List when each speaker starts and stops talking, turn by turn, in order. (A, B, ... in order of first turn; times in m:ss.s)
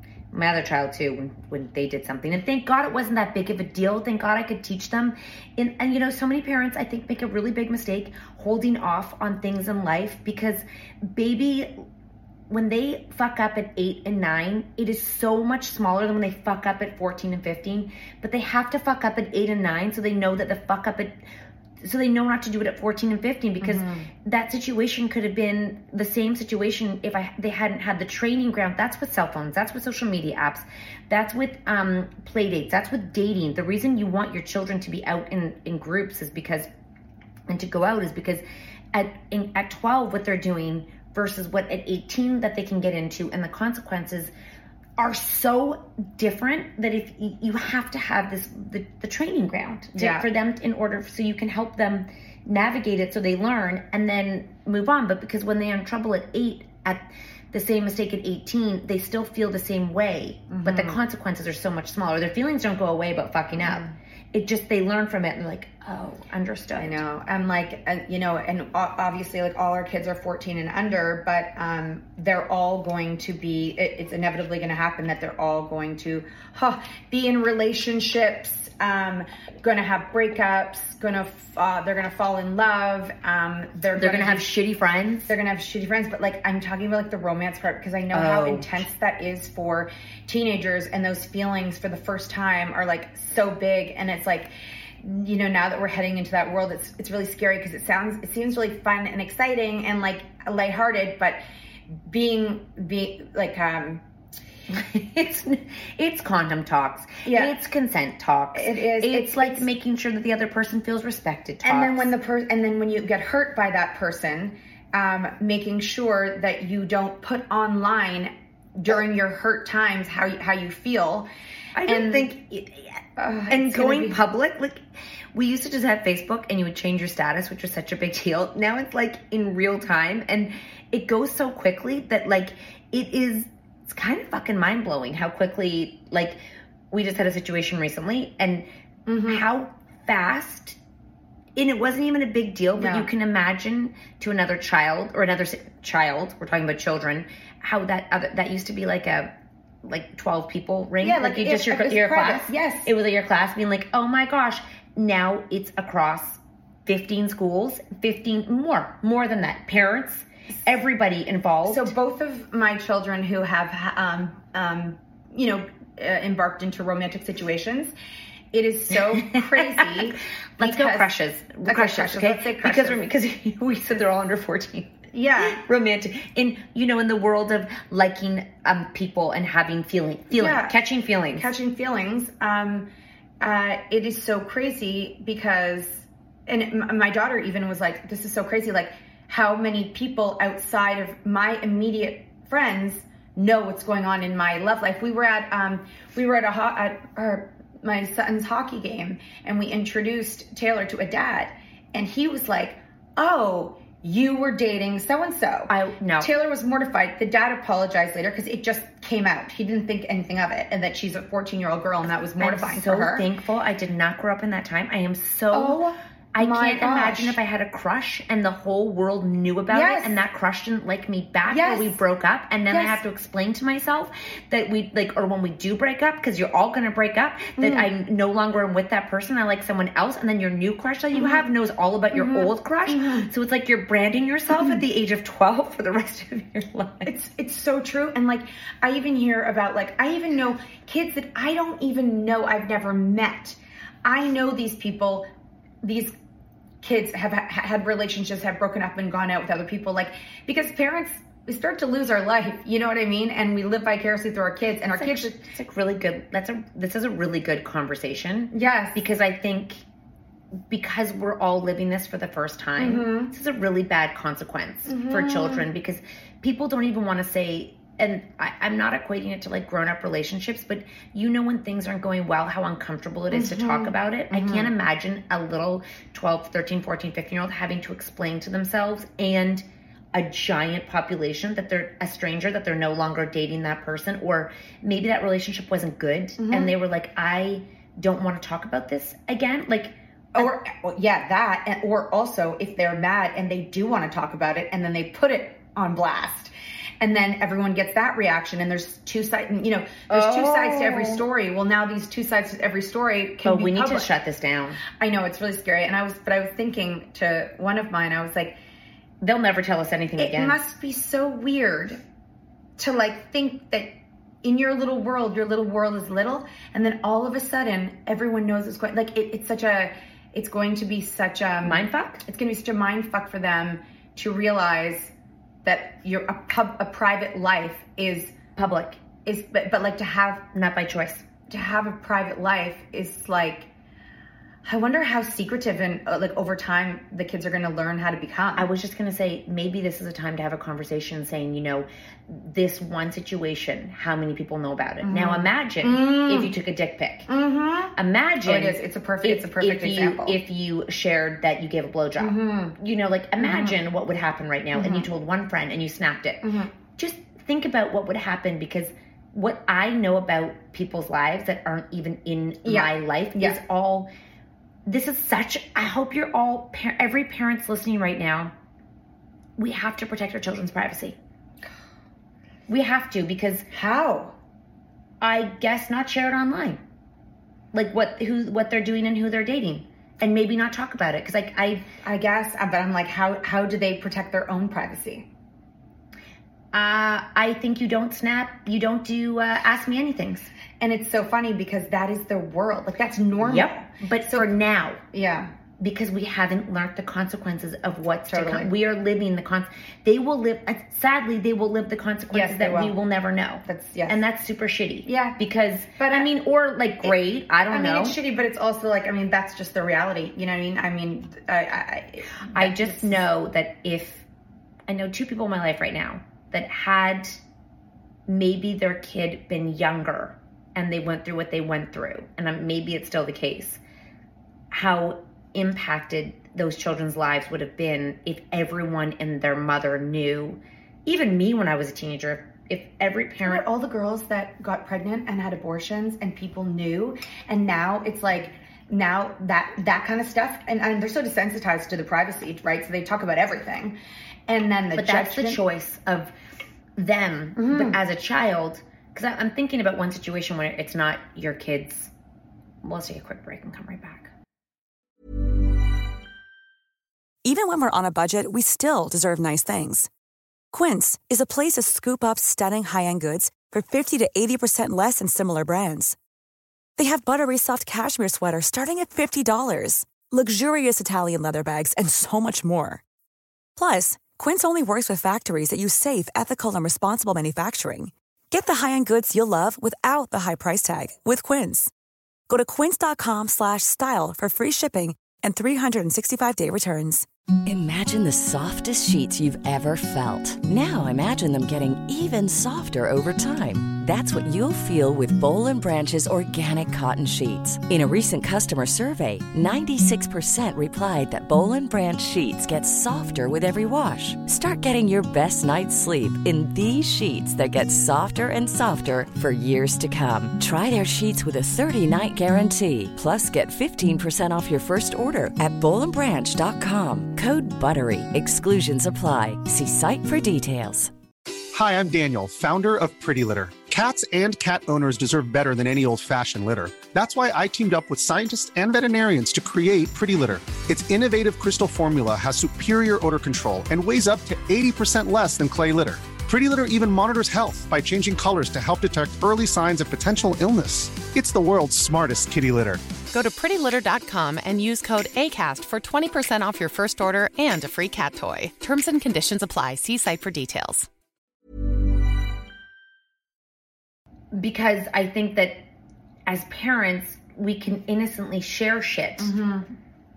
0:00.3-0:11.8 A
0:12.5-0:21.2 A
0:21.8-0:36.7 A
0:23.6-0:24.1 B
0:37.5-0:44.3 A
0:45.0-1:07.0 A
0:49.9-0:50.3 B
1:00.5-1:01.0 B
1:03.6-1:03.9 B
1:06.8-1:24.4 B
1:24.0-1:25.3 A
1:25.3-1:41.4 B
1:28.1-1:28.7 A
1:42.0-1:44.0 B
1:44.7-1:52.1 A
1:47.2-1:47.5 B
1:48.5-1:49.7 B
1:51.6-2:01.3 B
2:01.7-2:16.4 A
2:01.8-2:02.3 B
2:03.2-2:04.2 B
2:16.9-2:18.6 A
2:19.1-2:19.4 B
2:19.3-2:20.8 A
2:21.5-2:29.3 A
2:22.8-2:23.1 B
2:29.8-2:41.9 A
2:31.0-2:32.9 B
2:41.7-2:47.9 B
2:48.5-2:51.1 B
2:49.1-3:01.5 A
2:51.6-2:53.0 B
2:55.1-2:55.6 B
3:00.3-3:00.8 B
3:01.3-3:02.9 B
3:03.4-3:33.2 B
3:25.7-3:26.3 A
3:32.4-3:35.8 A
3:35.5-3:37.4 B
3:36.3-3:57.1 A
3:39.7-3:40.2 B
3:41.5-3:41.9 B
3:42.7-3:43.0 B
3:47.6-3:47.9 B
3:51.1-3:51.4 B
3:52.1-3:53.3 B
3:57.0-4:05.2 B
4:05.8-4:06.1 B
4:06.8-4:15.4 B
4:14.9-4:19.8 A
4:18.5-4:19.0 B
4:20.7-4:50.5 A
4:22.8-4:23.3 B
4:24.9-4:25.6 B
4:33.3-4:34.7 B
4:46.4-4:46.7 B
4:50.3-5:04.1 B
5:00.1-5:01.3 A
5:03.4-5:04.8 A
5:05.0-5:08.6 B
5:09.2-5:10.6 A
5:10.2-5:12.0 B
5:12.8-5:25.1 B
5:21.6-5:22.2 A
5:25.6-5:28.4 B
5:28.6-5:29.0 A
5:29.2-5:30.5 B
5:30.5-5:31.3 A
5:31.4-5:33.7 B
5:34.6-5:38.7 B
5:38.6-5:47.3 A
5:45.0-5:46.5 B
5:47.3-5:47.9 B
5:47.9-6:04.1 A
5:48.4-5:50.4 B
5:52.2-5:52.7 B
5:53.4-5:53.8 B
5:54.7-5:55.1 B
5:56.4-5:56.7 B
6:02.6-6:03.6 B
6:04.8-6:08.5 A
6:09.6-6:11.2 A
6:12.7-6:13.7 A
6:13.7-6:14.4 B
6:15.2-6:16.8 A
6:17.7-6:21.9 A
6:22.0-6:25.3 B
6:26.7-6:30.5 A
6:30.8-6:34.5 B
6:33.4-6:35.0 A
6:35.1-6:35.5 B
6:35.8-6:48.2 A
6:38.3-6:38.7 B
6:42.3-6:42.9 B
6:43.6-6:44.2 B
6:45.0-6:45.4 B
6:46.0-6:46.3 B
6:47.7-6:53.2 B
6:52.5-6:54.2 A
6:54.9-6:57.4 A
6:58.3-7:03.8 A
7:04.7-7:13.6 A
7:13.4-7:24.0 B
7:24.5-7:25.6 B
7:24.9-7:26.3 A
7:27.0-7:32.1 A
7:27.6-7:28.0 B
7:32.8-7:34.3 A
7:37.4-7:40.1 C
7:40.7-7:46.2 C
7:47.0-7:53.0 C
7:53.8-8:01.9 C
8:02.5-8:07.2 C
8:07.6-8:41.1 D
8:41.7-9:03.0 E
9:03.4-9:11.0 F
9:14.5-9:15.8 A
9:16.5-9:19.5 A
9:19.4-9:19.9 B